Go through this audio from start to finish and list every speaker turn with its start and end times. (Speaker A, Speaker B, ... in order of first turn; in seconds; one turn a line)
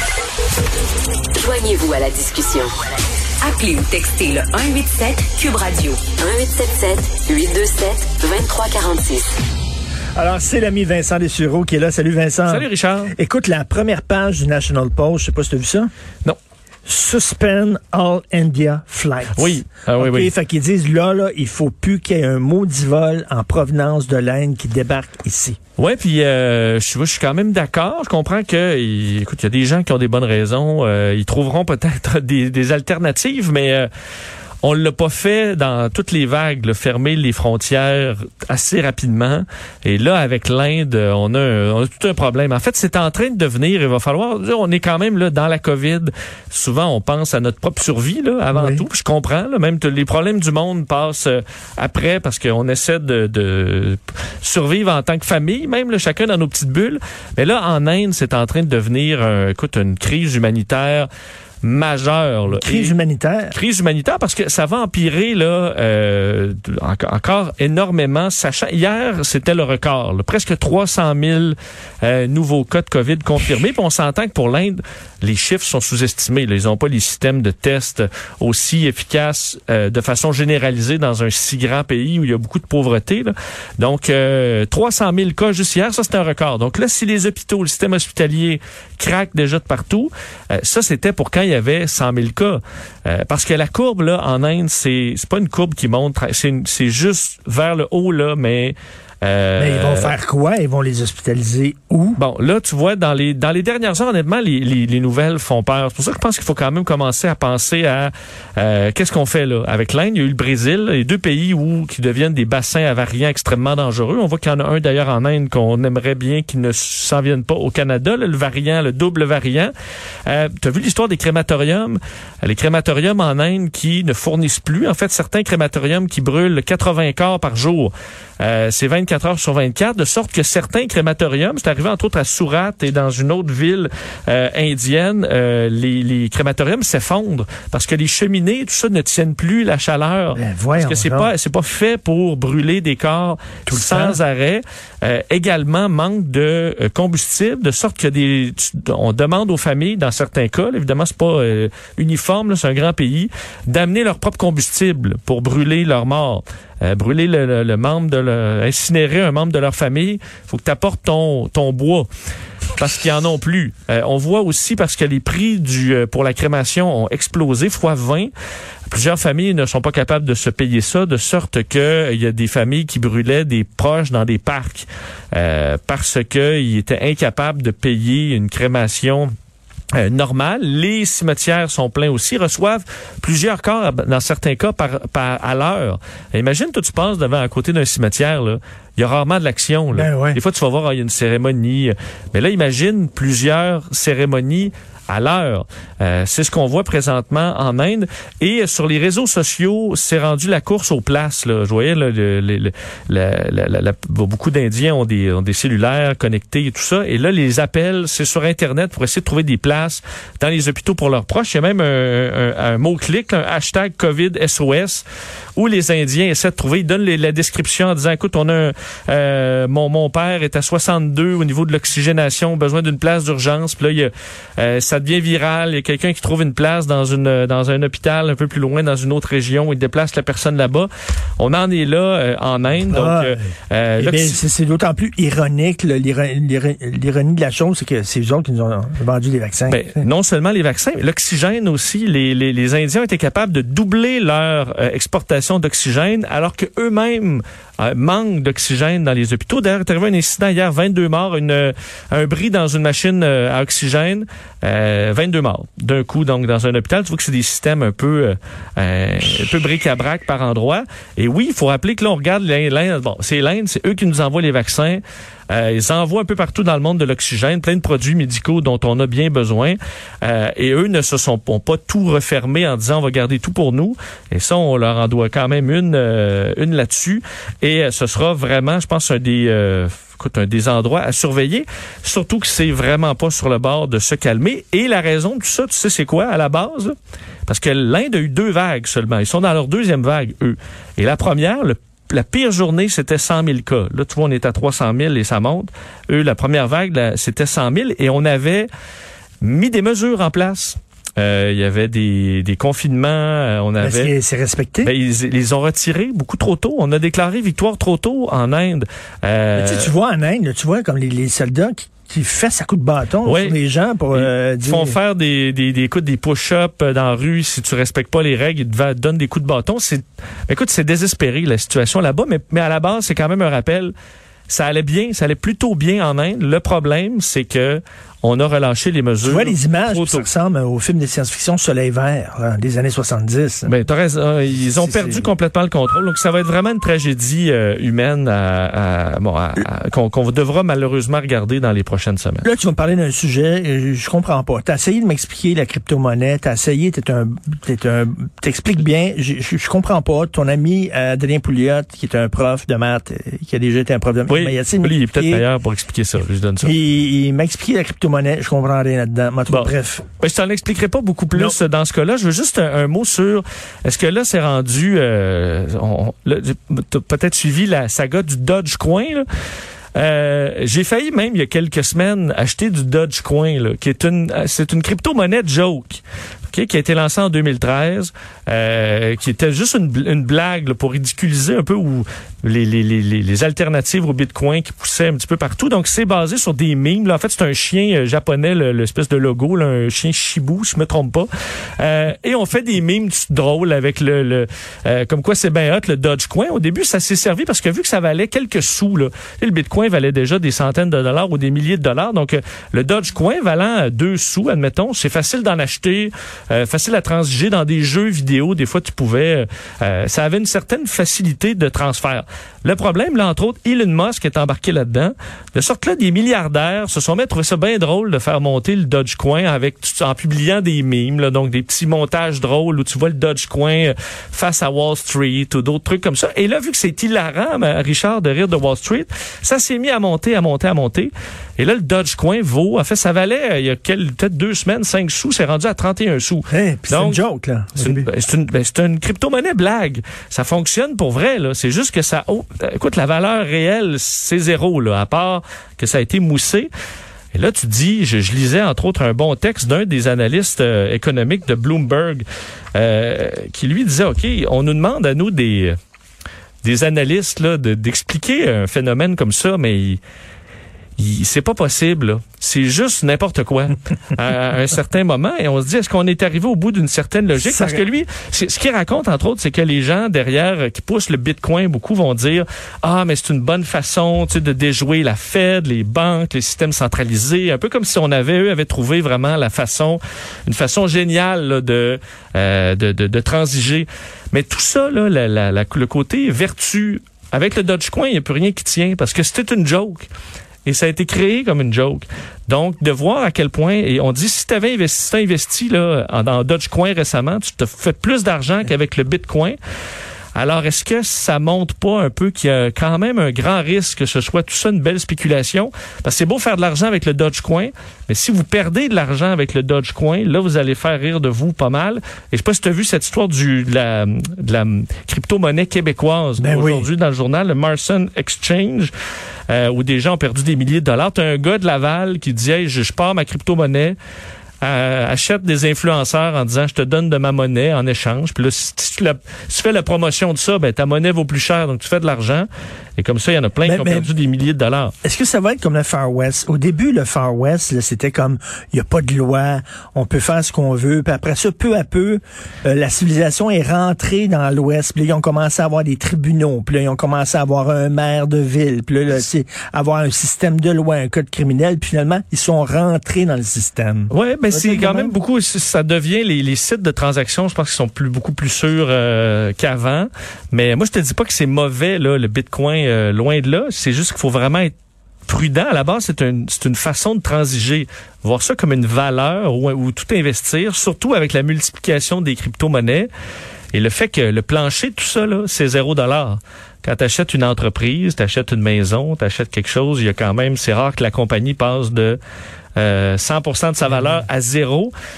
Speaker A: 1.3-2.8
Speaker A: 3.4-9.4
Speaker B: 10.2-15.9
Speaker C: 12.4-13.1
Speaker B: 16.9-25.6
Speaker C: 19.3-20.3
Speaker C: 25.8-33.9
Speaker C: 34.6-61.1
Speaker B: 48.5-48.8
Speaker C: 61.6-62.9
Speaker B: 62.5-63.5
Speaker C: 63.5-100.2
Speaker B: 99.6-102.2
Speaker C: 102.2-119.7
Speaker C: 120.2-162.1
Speaker B: 140.3-141.3
Speaker B: 143.7-144.2
Speaker C: 162.7-168.3
Speaker C: 168.9-179.3
Speaker C: 179.9-215.0
Speaker B: 189.9-190.4
Speaker C: 215.6-234.4
Speaker B: 232.9-240.0
Speaker C: 239.7-286.9
Speaker C: 287.5-298.7
Speaker C: 299.4-304.1
Speaker B: 303.8-304.9
Speaker C: 304.8-309.9
Speaker B: 309.6-315.0
Speaker C: 313.2-313.6
Speaker C: 314.1-323.9
Speaker C: 324.5-330.3
Speaker B: 329.2-333.7
Speaker C: 333.6-342.4
Speaker B: 334.8-335.3
Speaker B: 342.4-355.4
Speaker C: 354.3-356.7
Speaker B: 356.6-360.0
Speaker C: 359.5-369.2
Speaker C: 369.9-437.2
Speaker B: 436.5-438.1
Speaker C: 437.7-446.7
Speaker C: 447.3-455.8
Speaker C: 456.6-460.0
Speaker C: 461.0-490.1
Speaker B: 467.4-467.8
Speaker C: 490.6-499.6
Speaker C: 500.3-518.9
Speaker B: 516.4-516.9
Speaker C: 519.5-524.0
Speaker C: 524.6-534.9
Speaker B: 533.6-534.1
Speaker B: 535.0-555.1
Speaker C: 554.1-564.7
Speaker C: 565.3-573.1
Speaker C: 573.7-582.2
Speaker C: 582.8-584.9